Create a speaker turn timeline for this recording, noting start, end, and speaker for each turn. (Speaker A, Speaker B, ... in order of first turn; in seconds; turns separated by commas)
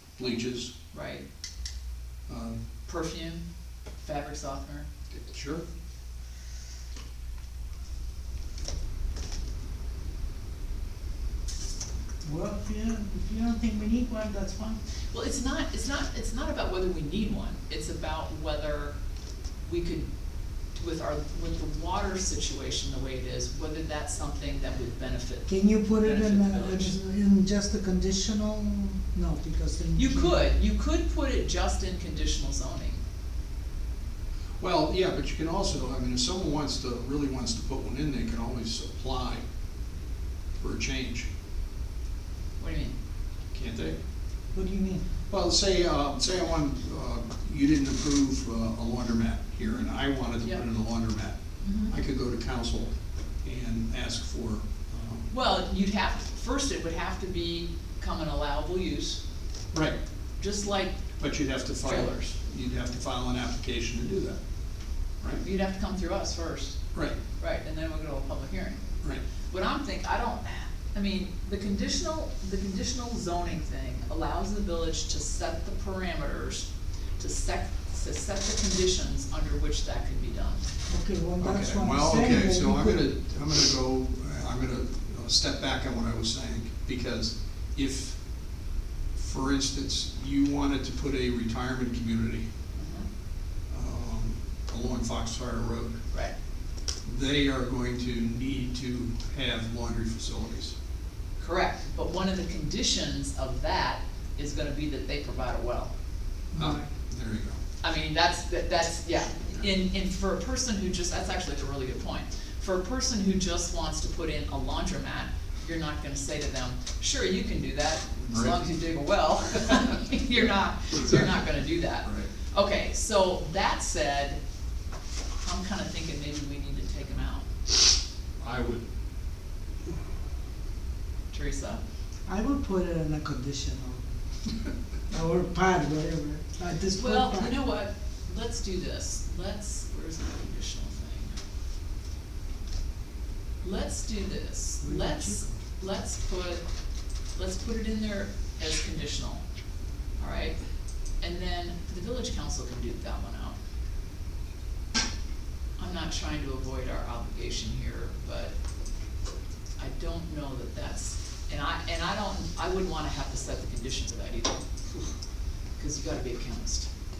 Speaker A: 0.2-0.7, Speaker B: 0.9-1.2, Speaker A: 2.3-2.5, Speaker B: 2.9-3.4, Speaker B: 4.0-4.9, Speaker A: 5.1-5.6, Speaker C: 12.2-14.8, Speaker B: 15.1-18.9, Speaker B: 19.6-20.1, Speaker B: 20.7-26.9, Speaker C: 25.5-30.4, Speaker B: 29.9-33.0, Speaker A: 34.6-39.4, Speaker A: 40.6-41.3, Speaker B: 42.6-43.0, Speaker A: 43.5-44.0, Speaker C: 44.5-45.0, Speaker A: 45.3-51.4, Speaker B: 51.6-52.0, Speaker A: 51.9-52.9, Speaker A: 53.4-55.3, Speaker B: 55.3-59.2, Speaker A: 59.7-60.0, Speaker B: 60.4-61.0, Speaker A: 61.2-64.4, Speaker B: 61.8-62.4, Speaker B: 65.4-66.8, Speaker B: 67.4-68.8, Speaker B: 69.5-76.7, Speaker B: 77.2-80.6, Speaker C: 80.9-83.0, Speaker A: 81.4-88.2, Speaker A: 89.2-92.5, Speaker B: 92.8-93.1, Speaker A: 93.7-96.0, Speaker A: 97.0-100.7, Speaker B: 101.4-105.9, Speaker C: 106.5-106.9, Speaker A: 106.5-107.6, Speaker B: 107.8-124.4, Speaker A: 118.3-118.7, Speaker A: 120.9-121.2, Speaker A: 122.0-122.3, Speaker B: 125.4-127.5, Speaker A: 128.4-128.8, Speaker B: 131.3-131.8, Speaker C: 132.2-134.1, Speaker C: 135.1-137.5, Speaker B: 136.9-141.4, Speaker B: 143.6-146.6, Speaker C: 144.8-145.5, Speaker B: 147.3-149.4, Speaker B: 150.2-150.6, Speaker B: 151.2-153.6, Speaker B: 155.8-158.5, Speaker B: 159.8-164.6, Speaker B: 165.8-166.9